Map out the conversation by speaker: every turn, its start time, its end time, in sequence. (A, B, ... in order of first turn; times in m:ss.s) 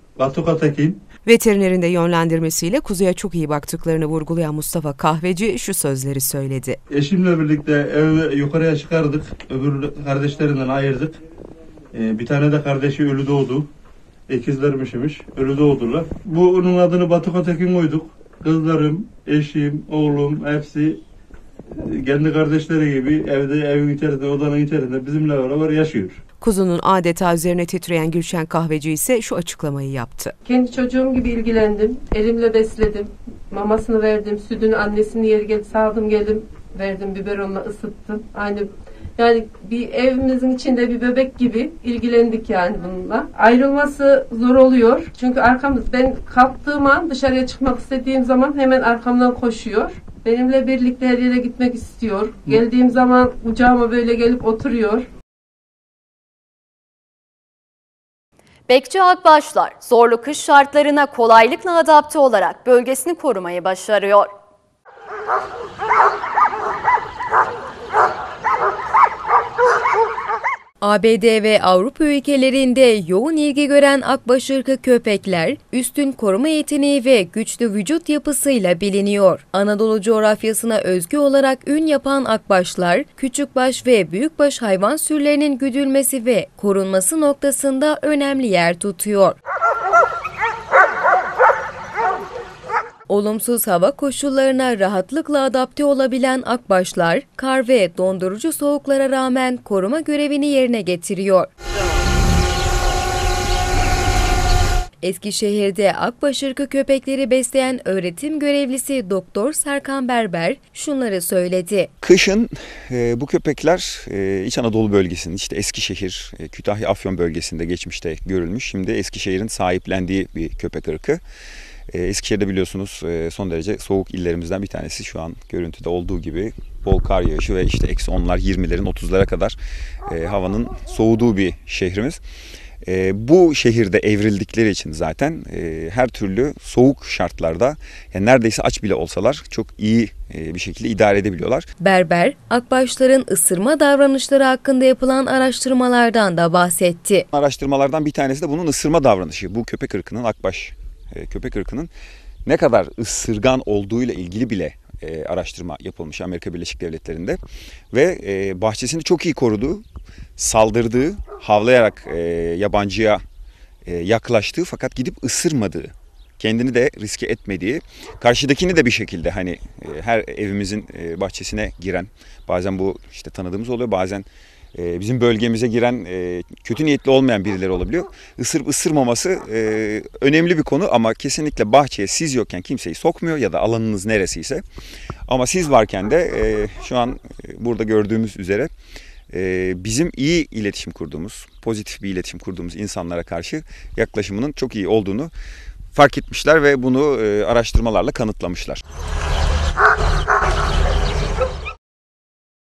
0:00.2-0:01.0 A
0:01.2-0:06.8 B
0:06.9-0:11.2 A
0:11.9-0:13.7 A
0:14.3-0:21.0 A
0:21.7-0:26.2 A
0:26.4-0:30.3 B
0:30.4-0:55.1 C
0:58.7-1:04.3 D
1:10.8-1:29.4 E
1:33.1-1:41.5 E
1:45.0-1:51.9 E
1:52.0-2:01.2 F
2:01.9-2:12.2 F
2:12.8-2:21.7 F
2:21.8-2:27.3 E
2:27.3-2:31.9 F
2:32.4-2:37.4 F
2:37.9-2:39.9 F
2:40.4-2:43.2 F
2:43.9-3:04.6 F
3:05.3-3:08.7 F
3:09.3-3:15.3 F
3:15.9-3:18.8 F